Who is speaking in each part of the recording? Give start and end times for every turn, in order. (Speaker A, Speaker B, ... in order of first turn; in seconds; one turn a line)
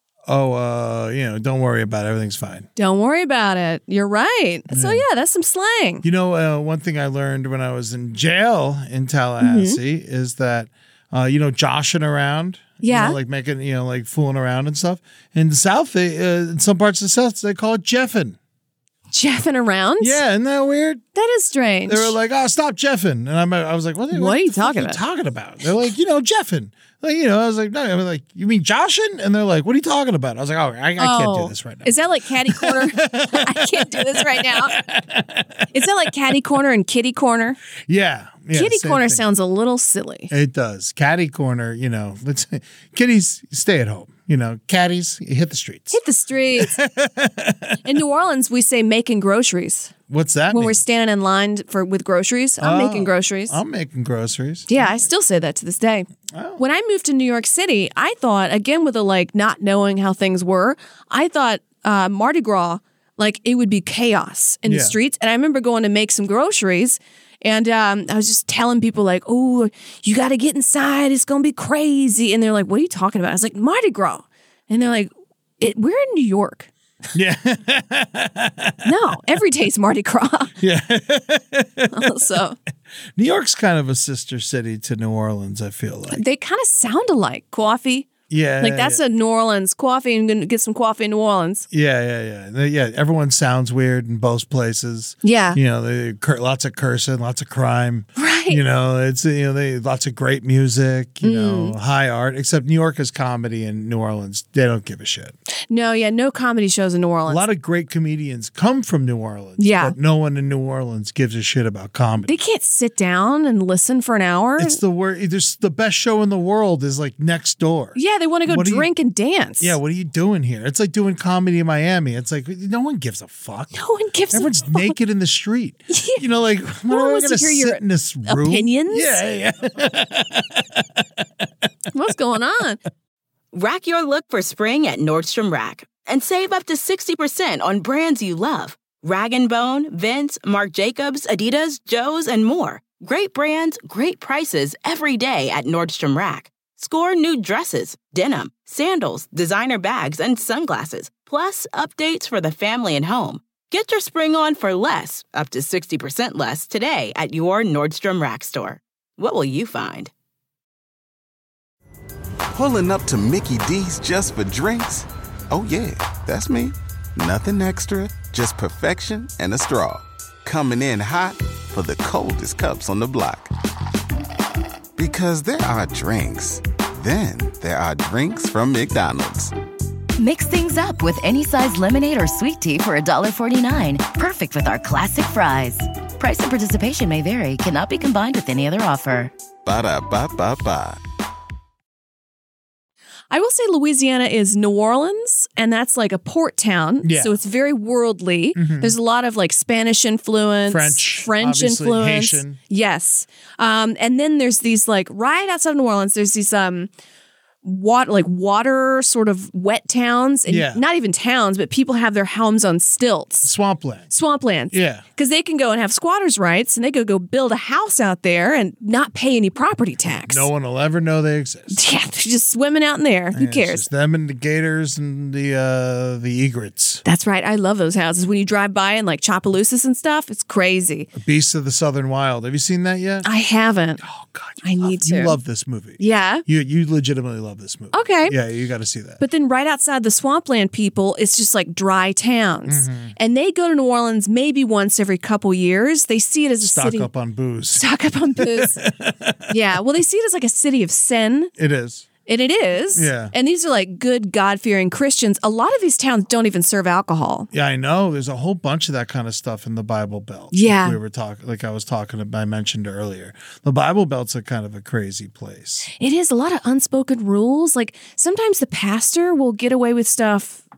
Speaker A: 0.3-2.7
Speaker B: 2.8-6.0
Speaker A: 4.7-5.0
Speaker A: 6.0-18.4
Speaker B: 9.4-9.8
Speaker B: 12.8-13.2
Speaker B: 19.1-20.2
Speaker A: 20.0-21.0
Speaker B: 21.1-22.1
Speaker A: 21.9-35.8
Speaker B: 24.1-25.0
Speaker B: 31.0-34.7
Speaker B: 35.7-37.6
Speaker A: 37.9-39.2
Speaker B: 38.5-40.3
Speaker A: 40.3-46.0
Speaker B: 45.9-46.8
Speaker A: 46.5-48.0
Speaker B: 47.8-49.9
Speaker A: 50.1-50.8
Speaker B: 50.5-53.6
Speaker A: 52.6-55.1
Speaker B: 54.7-76.7
Speaker A: 56.3-56.6
Speaker A: 64.7-65.0
Speaker A: 77.1-78.9
Speaker B: 78.8-80.5
Speaker A: 80.6-82.2
Speaker B: 81.9-82.6
Speaker A: 83.2-86.2
Speaker B: 86.1-91.7
Speaker A: 88.3-89.0
Speaker A: 91.7-105.3
Speaker B: 95.2-95.6
Speaker B: 98.2-98.6
Speaker B: 101.2-101.7
Speaker B: 105.7-107.4
Speaker A: 107.3-112.3
Speaker B: 109.6-109.9
Speaker B: 112.2-114.8
Speaker A: 114.6-118.9
Speaker B: 117.9-119.7
Speaker A: 119.6-123.8
Speaker B: 123.7-124.9
Speaker A: 124.3-131.5
Speaker B: 125.9-126.2
Speaker B: 126.9-129.2
Speaker B: 131.9-132.8
Speaker C: 133.5-160.1
Speaker D: 162.5-173.5
Speaker D: 175.0-179.5
Speaker E: 180.2-189.3
Speaker D: 189.6-191.0
Speaker B: 193.3-206.9
Speaker A: 197.0-197.4
Speaker A: 198.6-198.9
Speaker A: 200.7-202.6
Speaker B: 207.6-213.5
Speaker A: 210.5-210.8
Speaker A: 213.4-214.1
Speaker B: 214.1-220.5
Speaker A: 214.7-215.0
Speaker A: 220.2-221.8
Speaker B: 221.7-223.8
Speaker A: 223.3-227.0
Speaker B: 227.0-231.1
Speaker A: 231.2-233.3
Speaker B: 233.2-234.0
Speaker A: 234.0-239.2
Speaker B: 234.6-235.3
Speaker B: 236.0-236.4
Speaker B: 237.9-238.3
Speaker B: 239.2-247.1
Speaker A: 242.7-243.2
Speaker A: 246.6-249.6
Speaker B: 247.8-248.8
Speaker B: 249.5-251.5
Speaker A: 251.6-252.1
Speaker B: 252.2-257.5
Speaker A: 252.9-253.3
Speaker A: 257.5-265.9
Speaker B: 260.5-261.0
Speaker B: 265.9-270.6